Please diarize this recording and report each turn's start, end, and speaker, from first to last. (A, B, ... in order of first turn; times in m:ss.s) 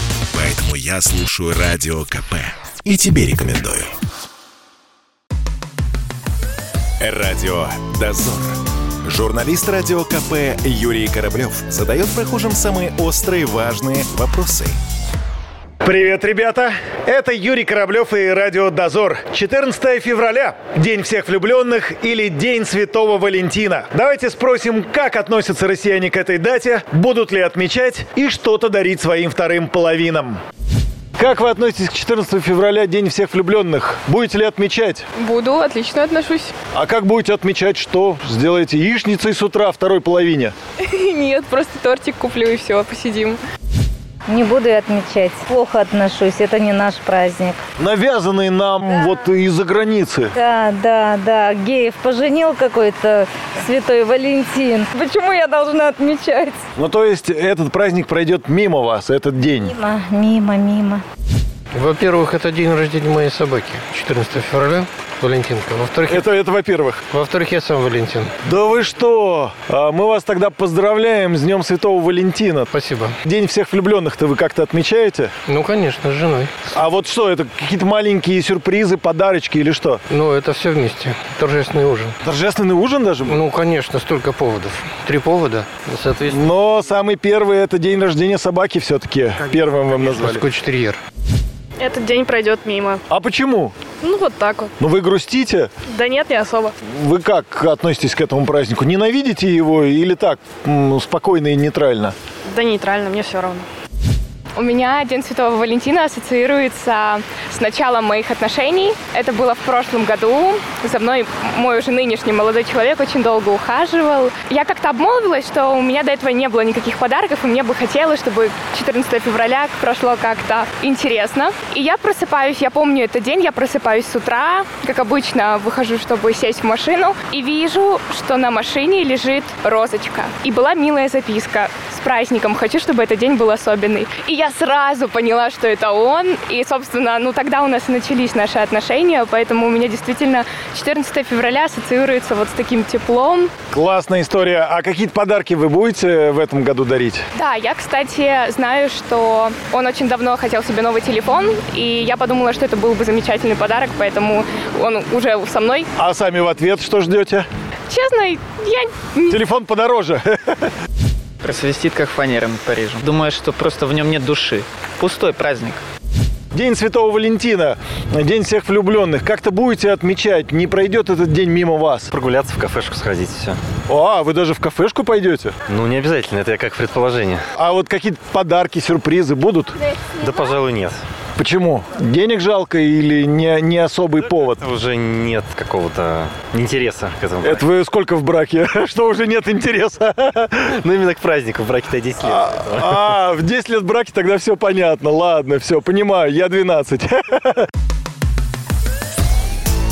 0:00.3-0:03.9 A
0:07.0-0:14.8 A
0:15.8-0:30.4 B
0:31.2-0:35.0 B
0:35.2-0:36.5 C
0:36.7-0:40.5 B
0:41.0-0:43.4 C
0:44.3-0:47.6 D
0:47.8-0:50.3 B
0:50.3-0:56.6 D
0:56.8-0:59.7 B
0:59.6-1:01.0 D
1:01.7-1:06.2 E
1:06.1-1:07.0 B
1:07.1-1:08.3 E
1:08.4-1:12.7 B
1:12.7-1:13.2 E
1:13.2-1:15.3 B
1:15.5-1:16.8 E
1:16.7-1:20.0 B
1:20.1-1:22.2 E
1:22.2-1:23.4 B
1:23.2-1:26.4 E
1:26.2-1:30.4 B
1:30.0-1:31.0 E
1:31.8-1:33.0 C
1:33.1-1:33.8 B
1:34.0-1:34.7 C
1:34.8-1:35.7 B
1:35.9-1:36.7 C
1:36.8-1:42.1 B
1:42.4-1:43.6 C
1:44.6-2:23.5 F
2:23.7-2:27.2 B
2:27.3-2:35.9 F
2:36.0-2:37.4 B
2:37.9-2:39.4 F
2:39.3-2:40.7 B
2:41.4-2:45.8 G
2:46.5-2:52.1 B
2:52.1-2:53.6 H
2:53.9-2:55.5 B
2:55.7-2:57.4 H
2:57.5-2:59.8 B
3:00.0-3:01.0 H
3:01.4-3:04.6 B
3:04.3-3:07.6 H
3:07.4-3:10.7 B
3:10.5-3:13.1 H
3:12.2-3:17.6 B